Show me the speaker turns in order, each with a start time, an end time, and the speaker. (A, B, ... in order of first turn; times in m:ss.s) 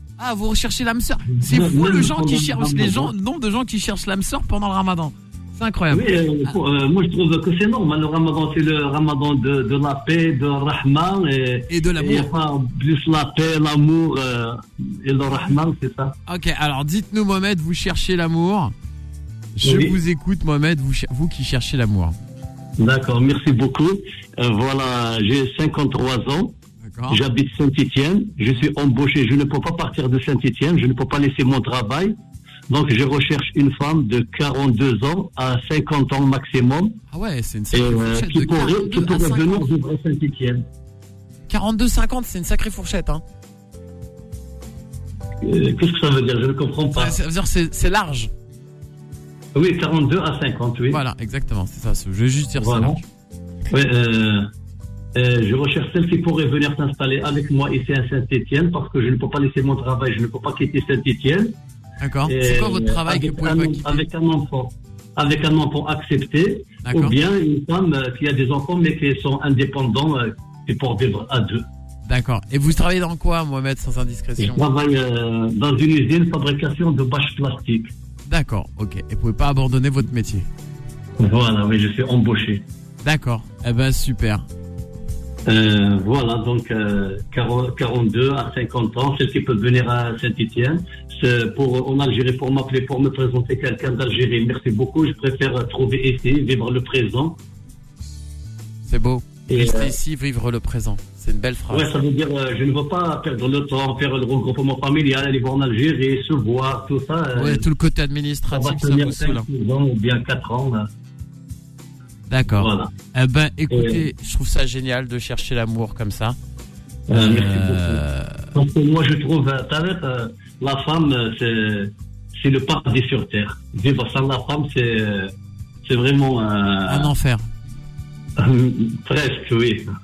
0:00.2-0:06.6 A
0:01.4-0:03.1 B
0:05.9-0:16.1 B
0:11.7-0:12.3 A
0:16.3-0:18.7 A
0:19.6-0:22.2 A
0:19.6-0:20.0 B
0:22.8-0:26.6 B
0:26.8-0:27.2 A
0:27.1-0:32.2 B
0:32.7-0:37.0 B
0:37.1-0:39.7 A
0:37.7-0:40.6 B
0:41.5-0:43.2 A
0:45.4-0:47.2 B
0:46.9-0:48.3 A
0:49.6-0:51.0 B
0:50.9-0:53.0 A
0:52.6-0:53.0 B
0:53.7-0:54.5 B
0:55.2-1:01.5 B
1:02.0-1:04.1 A
1:02.3-1:11.7 B
1:06.8-1:07.2 A
1:12.1-1:14.6 A
1:14.4-1:17.9 B
1:18.3-1:20.5 A
1:21.2-1:22.6 B
1:23.0-1:24.5 A
1:25.5-1:37.4 B
1:38.8-1:42.0 A
1:39.5-1:40.0 B
1:41.7-1:47.6 B
1:47.4-1:49.5 A
1:48.5-1:50.9 B
1:52.3-1:56.4 A
1:52.6-1:52.9 B
1:53.7-1:54.0 B
1:57.1-1:58.0 B
1:57.1-1:58.5 A
1:58.5-2:05.3 B
2:05.8-2:07.1 B
2:06.9-2:07.5 A
2:08.4-2:09.9 B